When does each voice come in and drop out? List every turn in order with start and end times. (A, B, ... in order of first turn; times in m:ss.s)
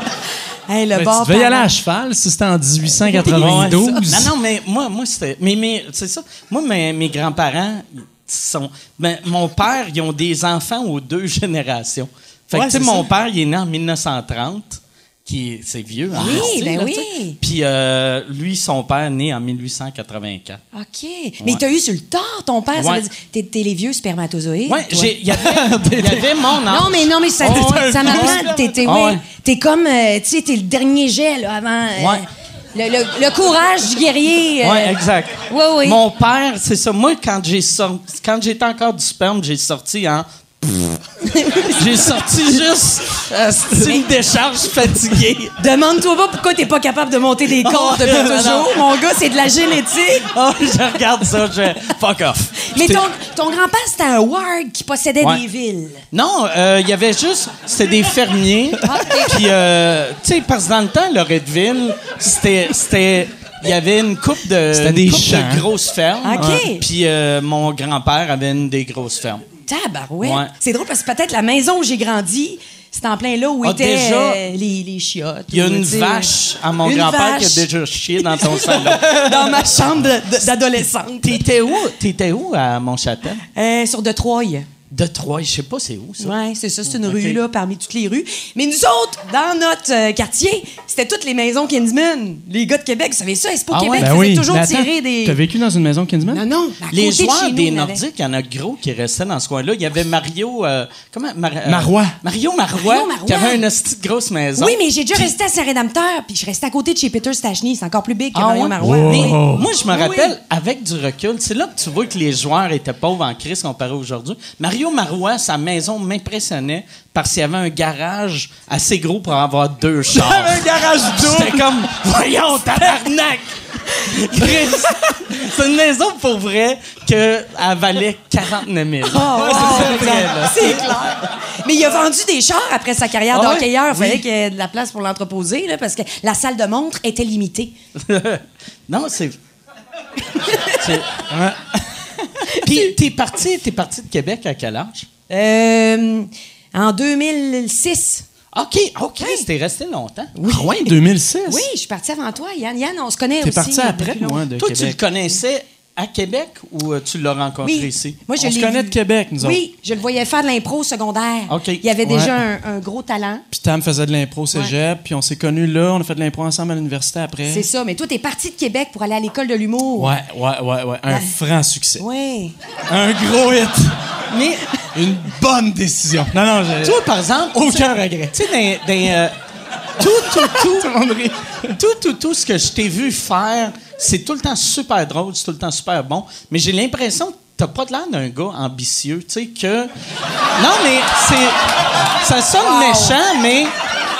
0:00.7-0:01.7 A
0:00.9-0:04.3 B
0:03.0-0:04.0 A
0:03.3-0:20.6 C
0:12.5-0:13.0 A
0:16.1-0:17.4 A
0:20.7-0:25.2 A
0:22.8-0:23.0 C
0:24.7-0:29.2 C
0:25.3-0:26.5 B
0:26.7-0:36.0 A
0:27.4-0:28.7 B
0:34.6-0:41.0 C
0:41.2-0:42.1 A
0:41.7-0:45.5 C
0:43.8-0:44.0 A
0:45.6-0:50.3 A
0:47.5-0:48.9 C
0:50.1-0:53.0 C
0:52.6-0:56.0 A
0:56.1-1:09.4 C
0:58.8-0:59.4 A
1:04.7-1:05.7 B
1:06.2-1:06.8 A
1:09.6-1:17.7 A
1:10.2-1:10.5 C
1:13.6-1:14.4 C
1:15.5-1:19.5 C
1:18.2-1:21.4 A
1:21.2-1:23.4 C
1:23.5-1:24.7 A
1:24.9-1:26.3 C
1:26.2-1:35.4 A
1:26.9-1:27.4 C
1:33.7-1:34.1 C
1:34.0-1:36.4 B
1:36.3-1:38.0 A
1:36.9-1:45.3 C
1:41.6-1:42.2 B
1:42.8-1:43.6 A
1:44.6-1:50.3 A
1:48.3-2:10.9 C
1:48.8-1:49.7 B
2:00.1-2:01.8 B
2:04.4-2:05.2 B
2:09.0-2:17.7 A
2:09.3-2:10.9 B
2:13.3-2:14.2 B
2:18.0-2:19.4 C
2:20.3-2:21.0 A
2:20.8-2:21.1 C
2:21.3-2:22.0 B
2:22.4-2:22.7 A
2:22.6-2:25.1 C
2:25.3-2:28.2 A
2:28.5-2:30.3 C
2:29.2-2:29.5 A
2:30.3-2:30.9 A
2:30.4-2:31.6 B
2:31.4-2:34.4 A
2:33.4-2:35.0 B
2:34.6-2:38.2 C
2:37.6-2:43.4 A
2:38.4-2:39.6 B
2:41.5-2:41.8 C
2:42.0-2:42.3 B
2:43.5-2:47.7 B
2:47.5-2:50.1 A
2:50.0-2:52.0 B
2:51.1-2:51.3 A
2:52.0-2:52.5 A
2:52.9-2:54.0 B
2:54.9-2:57.0 B
2:56.8-2:59.4 C
2:57.6-2:58.3 B
3:00.0-3:00.9 C
3:00.1-3:01.8 B
3:01.8-3:09.9 C
3:10.6-3:11.6 C
3:12.2-3:13.7 C
3:12.6-3:13.2 A